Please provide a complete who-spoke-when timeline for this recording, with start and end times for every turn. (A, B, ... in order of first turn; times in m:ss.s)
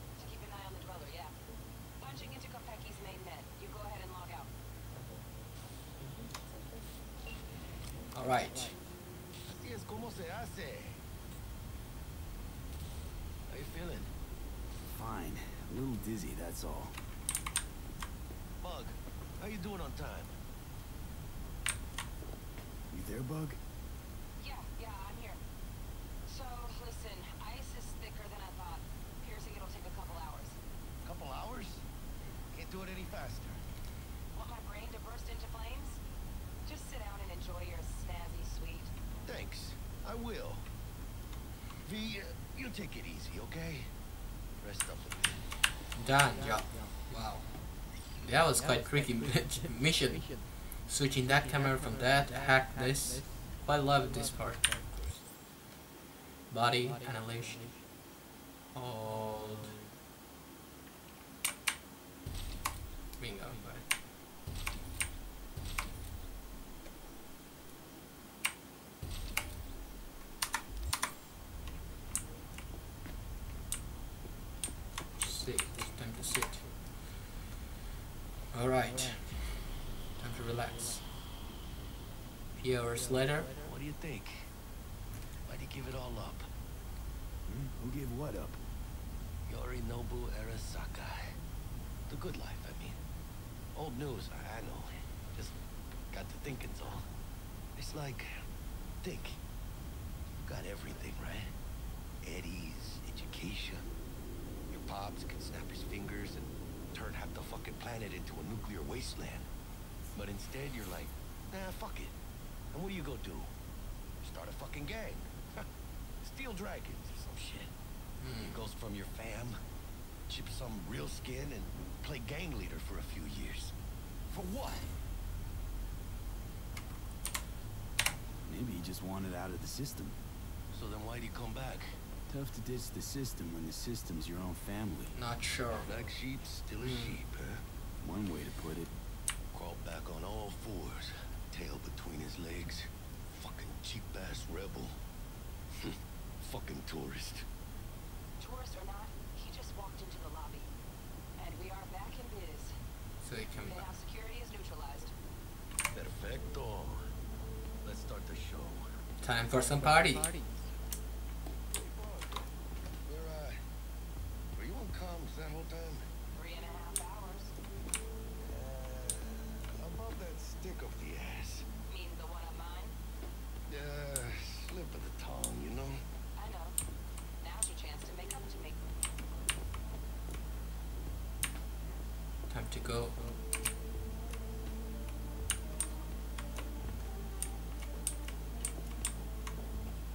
0:00.2-0:01.3 A
0:02.0-0:04.5 A
0:08.1-0:08.8 B
0:09.5-0:11.0 C
0:13.5-0:14.1 C
0:14.9-0:17.0 D
0:18.6-0:20.4 C
0:22.9-0:23.6 D
0:24.4-0:25.4 A
0:26.2-0:30.6 A
0:31.0-0:31.8 C
0:32.5-0:33.6 C
0:34.3-0:36.0 A
0:36.6-0:38.9 A
0:39.2-0:40.7 C
0:41.8-0:43.9 C
0:44.6-0:45.4 C
0:46.0-0:47.5 B
0:48.2-0:54.7 B
0:56.5-0:57.6 B
0:58.7-0:59.8 B
1:03.2-1:03.8 B
1:15.2-1:16.7 B
1:18.5-1:21.0 B
1:22.6-1:23.5 B
1:23.6-1:24.5 C
1:25.5-1:26.5 C
1:27.4-1:28.6 D
1:29.5-1:31.4 C
1:32.1-1:33.0 C
1:33.7-1:35.5 C
1:36.1-1:37.1 C
1:37.8-1:38.4 C
1:39.0-1:39.4 C
1:40.4-1:41.5 C
1:42.2-1:43.9 C
1:44.7-1:49.5 C
1:50.1-1:52.2 C
1:52.7-1:53.5 C
1:54.2-1:55.6 C
1:56.2-1:57.7 C
1:58.2-1:58.6 B
1:58.4-1:59.6 C
2:00.3-2:03.7 C
2:04.3-2:04.9 C
2:08.4-2:10.2 D
2:10.7-2:12.0 C
2:12.3-2:15.1 D
2:15.1-2:15.9 B
2:15.6-2:17.6 C
2:16.8-2:17.2 B
2:18.0-2:18.9 D
2:19.5-2:25.0 C
2:25.8-2:27.5 C
2:28.4-2:30.7 A
2:31.4-2:32.7 A
2:33.2-2:33.9 B
2:33.6-2:35.1 A
2:35.9-2:37.1 C
2:37.8-2:38.9 C
2:39.2-2:40.3 B
2:41.7-2:42.5 C
2:43.0-2:43.6 C
2:44.5-2:46.1 C
2:46.3-2:47.5 A
2:48.4-2:51.6 C
2:51.9-2:53.0 A
2:53.7-2:56.0 C
2:56.4-2:56.8 A
2:57.4-2:58.8 A
3:02.5-3:03.2 B